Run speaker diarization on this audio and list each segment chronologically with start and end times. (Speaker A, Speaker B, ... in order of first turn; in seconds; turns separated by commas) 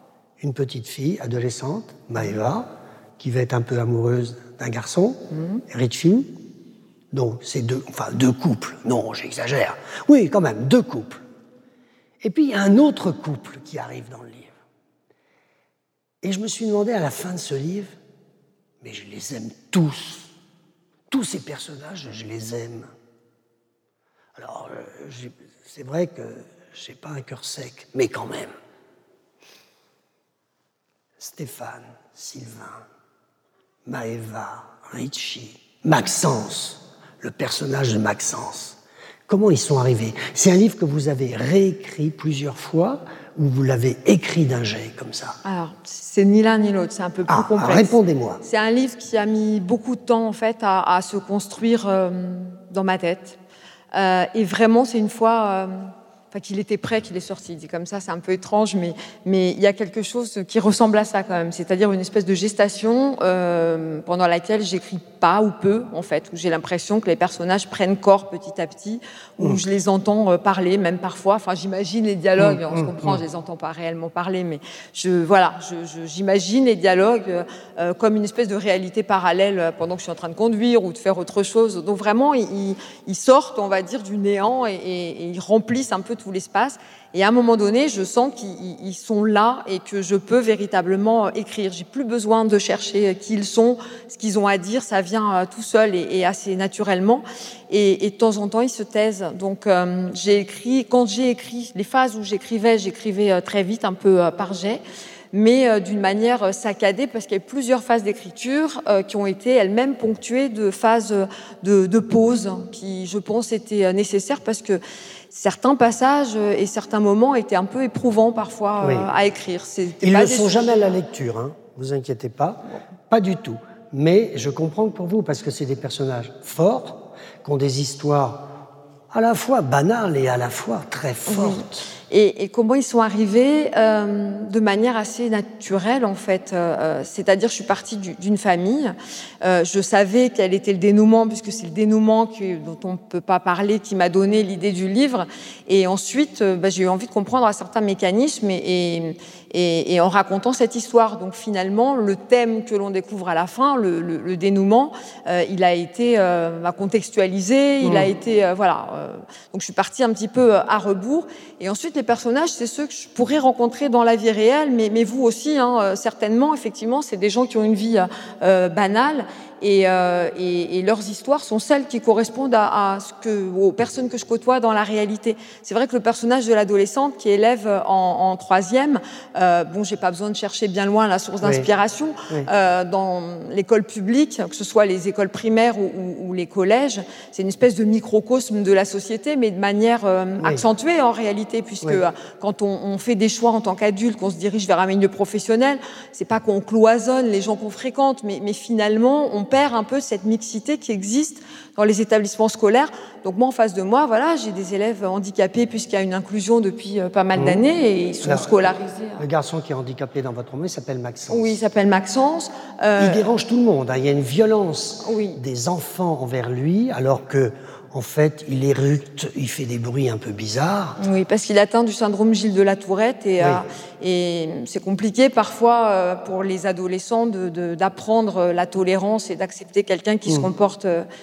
Speaker A: 0.4-6.3, Speaker B: 5.3-5.6, Speaker A: 7.1-11.2, Speaker A: 12.2-14.5, Speaker A: 16.2-18.0, Speaker A: 18.8-20.3, Speaker A: 21.1-22.9, Speaker A: 24.4-28.5, Speaker A: 31.2-32.8, Speaker A: 33.9-45.4, Speaker B: 45.4-53.4, Speaker A: 47.3-48.4, Speaker B: 53.9-104.8, Speaker A: 72.4-73.2, Speaker B: 105.3-114.8, Speaker B: 115.3-120.9, Speaker A: 118.8-119.1, Speaker A: 120.0-128.5, Speaker A: 129.1-131.8, Speaker B: 131.3-209.2, Speaker A: 157.8-158.1, Speaker A: 181.4-181.7, Speaker A: 207.3-207.6, Speaker A: 208.2-208.6, Speaker A: 209.2-211.6, Speaker B: 211.3-213.2, Speaker A: 213.0-221.0, Speaker B: 215.0-215.4, Speaker B: 221.0-231.1